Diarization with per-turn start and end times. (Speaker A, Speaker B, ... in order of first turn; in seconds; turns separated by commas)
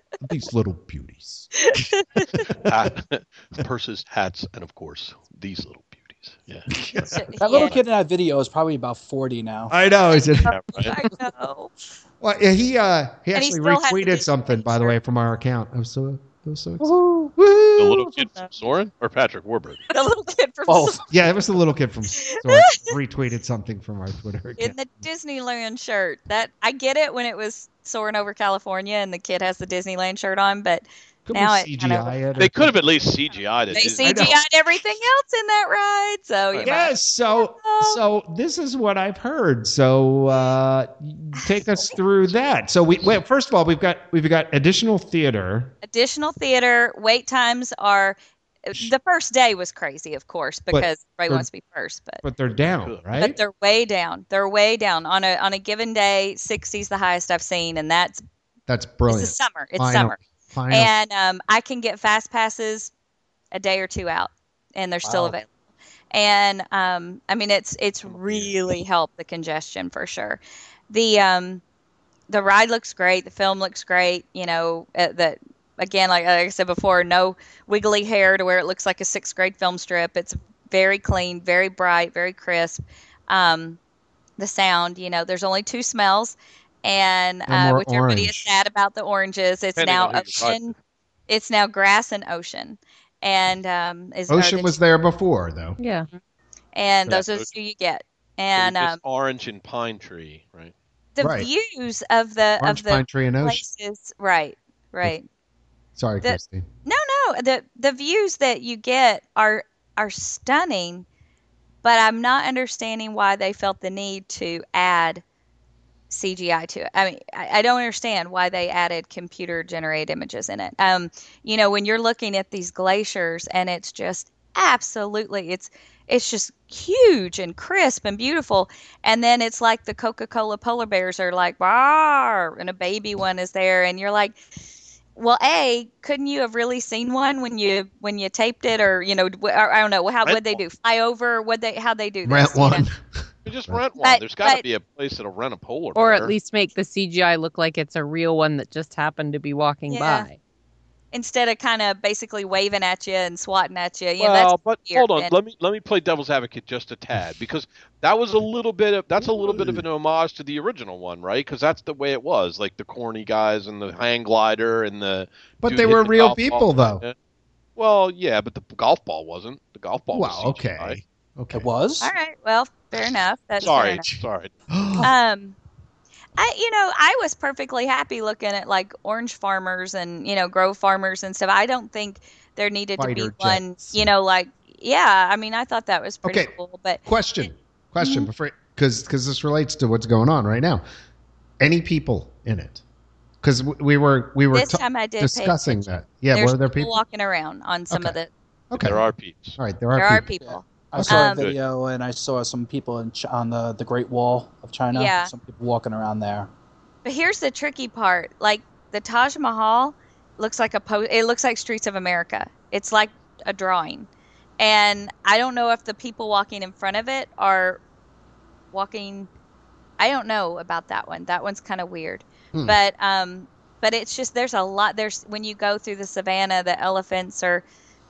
Speaker A: 0.2-1.9, Speaker B: 1.6-2.5, Speaker C: 2.6-6.9, Speaker A: 2.6-2.9, Speaker A: 6.7-7.8, Speaker B: 7.1-7.8, Speaker D: 7.4-9.7, Speaker A: 9.7-11.1, Speaker B: 10.4-11.7, Speaker C: 10.5-10.9, Speaker A: 12.2-18.1, Speaker B: 13.3-14.9, Speaker D: 16.8-17.3, Speaker C: 17.8-19.9, Speaker B: 19.9-21.3, Speaker D: 20.7-21.0, Speaker A: 21.1-24.8, Speaker B: 22.1-22.9, Speaker B: 24.6-32.1, Speaker A: 31.2-32.8, Speaker C: 32.4-34.4, Speaker B: 33.7-38.0, Speaker A: 33.8-34.4, Speaker A: 36.6-45.7, Speaker B: 41.4-41.9, Speaker C: 41.8-42.4, Speaker B: 45.8-52.2, Speaker A: 50.7-51.5, Speaker A: 52.2-53.4, Speaker C: 52.7-53.3, Speaker B: 53.1-58.2, Speaker A: 58.7-60.9, Speaker B: 59.1-60.2, Speaker B: 60.7-62.9, Speaker B: 63.5-65.5, Speaker D: 65.0-65.4, Speaker B: 66.1-71.6, Speaker C: 68.0-68.5, Speaker B: 72.3-83.8, Speaker B: 84.4-90.7, Speaker A: 87.5-88.5, Speaker C: 89.8-90.7, Speaker B: 91.3-94.8, Speaker A: 94.3-95.8, Speaker E: 95.8-96.1, Speaker B: 96.7-99.0, Speaker C: 97.1-97.5, Speaker C: 98.5-100.7, Speaker B: 101.2-105.3, Speaker A: 101.2-101.5, Speaker A: 102.6-103.6, Speaker A: 106.0-106.6, Speaker B: 106.2-111.0, Speaker B: 111.8-115.2, Speaker B: 116.1-134.4, Speaker B: 135.2-142.8, Speaker C: 140.2-140.6, Speaker A: 142.2-143.0, Speaker C: 143.4-146.3, Speaker B: 144.0-144.6, Speaker E: 145.9-150.4, Speaker B: 149.9-150.3, Speaker B: 151.1-155.3, Speaker C: 154.2-167.1, Speaker A: 159.2-159.8, Speaker A: 165.6-167.0, Speaker C: 167.8-171.0, Speaker A: 170.1-171.7, Speaker D: 171.5-172.1, Speaker B: 172.0-174.0, Speaker C: 173.6-174.5, Speaker A: 174.7-175.1, Speaker B: 175.0-175.6, Speaker B: 176.4-187.5, Speaker A: 183.0-184.0, Speaker A: 186.2-186.5, Speaker A: 187.0-190.8, Speaker B: 188.0-188.3, Speaker A: 191.6-192.8, Speaker A: 193.4-197.0, Speaker B: 194.5-198.3, Speaker A: 197.9-198.2, Speaker A: 198.7-199.0, Speaker C: 198.7-199.6, Speaker A: 199.6-200.3, Speaker B: 199.9-201.5, Speaker D: 200.4-206.5, Speaker A: 201.0-201.2, Speaker B: 204.9-205.3, Speaker B: 207.0-214.1, Speaker B: 214.6-217.8, Speaker B: 218.7-219.3, Speaker B: 220.0-227.6